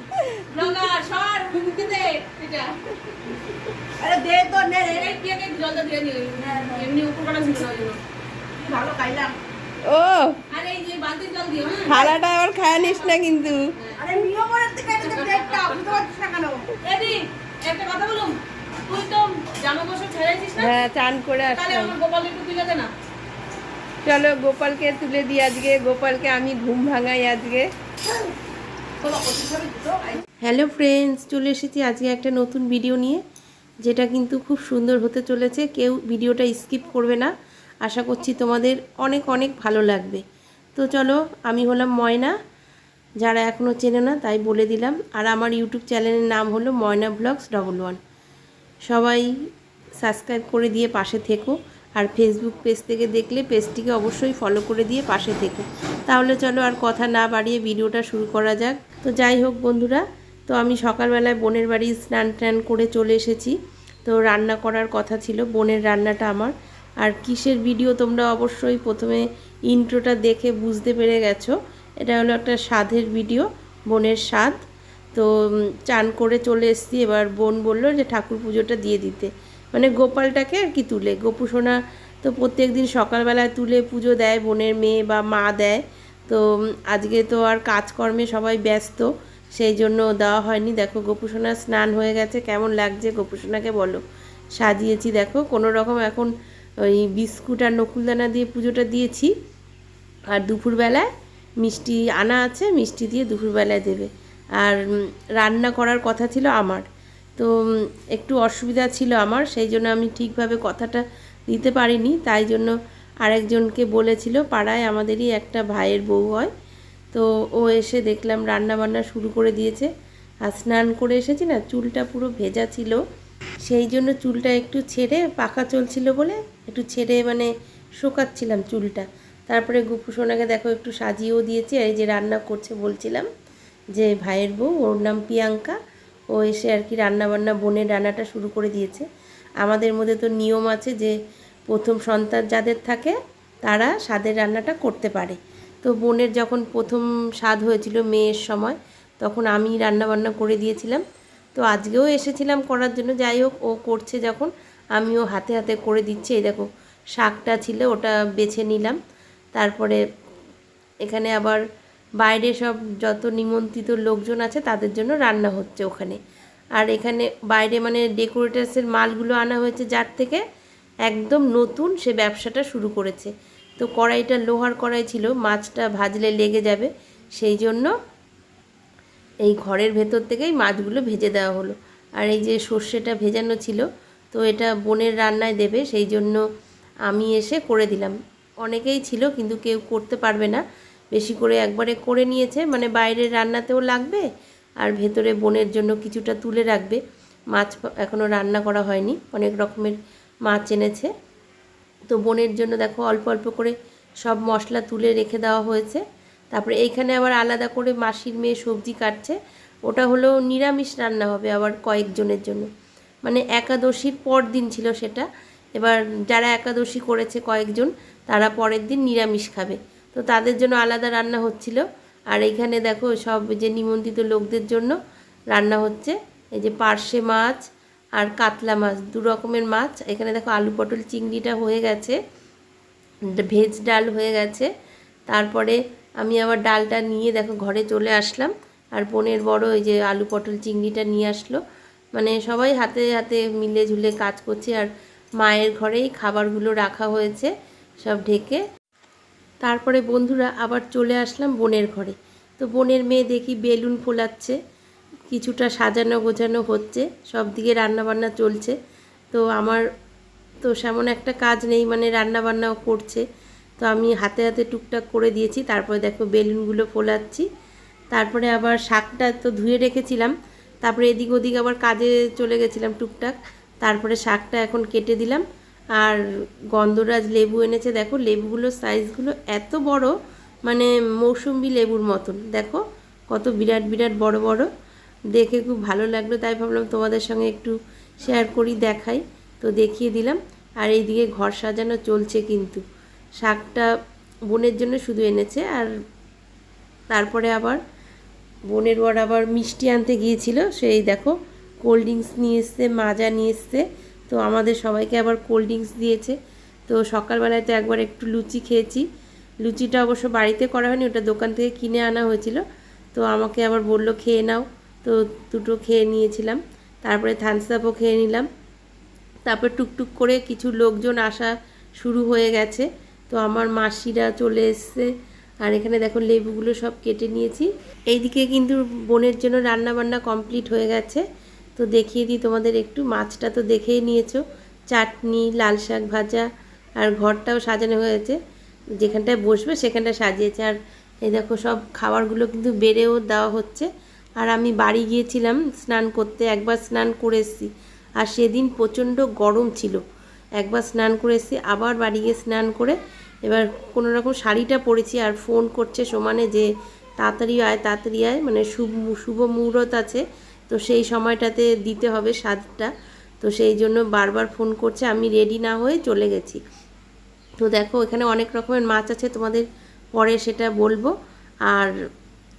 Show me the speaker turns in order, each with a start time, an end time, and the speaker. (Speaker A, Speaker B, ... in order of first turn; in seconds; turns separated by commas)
Speaker A: 0.5-3.0, Speaker B: 4.0-5.1, Speaker A: 4.8-8.0, Speaker B: 6.5-6.8, Speaker B: 8.6-9.3, Speaker C: 9.9-10.4, Speaker A: 10.5-12.1, Speaker C: 11.9-13.7, Speaker B: 14.0-16.8, Speaker A: 15.0-16.1, Speaker A: 16.8-20.8, Speaker C: 20.6-22.0, Speaker A: 21.6-22.9, Speaker C: 24.1-27.7, Speaker B: 29.0-30.1, Speaker C: 30.4-33.2, Speaker C: 33.8-37.3, Speaker C: 37.8-40.2, Speaker C: 40.8-42.4, Speaker C: 43.2-48.0, Speaker C: 48.9-49.3, Speaker C: 50.0-74.6, Speaker C: 75.9-94.0, Speaker C: 94.6-96.3, Speaker C: 96.8-99.3, Speaker C: 100.3-101.1, Speaker C: 101.6-104.8, Speaker C: 105.4-106.8, Speaker C: 108.1-116.5, Speaker C: 117.1-119.9, Speaker C: 120.5-123.0, Speaker C: 123.6-127.5, Speaker C: 128.0-133.3, Speaker C: 133.9-135.8, Speaker C: 136.3-139.1, Speaker C: 139.6-141.2, Speaker C: 141.7-151.0, Speaker C: 151.6-159.0, Speaker C: 159.6-160.0, Speaker C: 161.1-161.6, Speaker C: 162.2-166.2, Speaker C: 166.8-170.4, Speaker C: 171.1-177.9, Speaker C: 179.4-186.4, Speaker C: 187.1-190.6, Speaker C: 191.1-194.3, Speaker C: 194.8-197.0, Speaker C: 197.5-201.1, Speaker C: 202.1-209.4, Speaker C: 209.9-212.7, Speaker C: 213.2-215.3, Speaker C: 215.8-224.9, Speaker C: 225.5-227.6, Speaker C: 228.2-232.2, Speaker C: 233.3-234.7, Speaker C: 235.3-241.6, Speaker C: 242.2-247.5, Speaker C: 248.0-248.6, Speaker C: 249.6-254.6, Speaker C: 255.3-258.8, Speaker C: 259.3-259.8, Speaker C: 260.6-263.2, Speaker C: 263.8-267.5, Speaker C: 268.1-275.4, Speaker C: 276.7-280.1, Speaker C: 280.7-284.7, Speaker C: 285.3-292.8, Speaker C: 293.4-293.9, Speaker C: 294.5-295.9, Speaker C: 297.1-297.8, Speaker C: 298.7-306.4, Speaker C: 306.9-309.1, Speaker C: 309.6-312.6, Speaker C: 313.1-318.5, Speaker C: 319.5-325.1, Speaker C: 325.6-331.2, Speaker C: 331.8-336.5, Speaker C: 337.0-338.4, Speaker C: 339.0-340.8, Speaker C: 341.3-343.9, Speaker C: 344.4-350.0, Speaker C: 350.6-356.7, Speaker C: 357.2-362.9, Speaker C: 363.4-366.6, Speaker C: 367.6-369.6, Speaker C: 370.2-371.1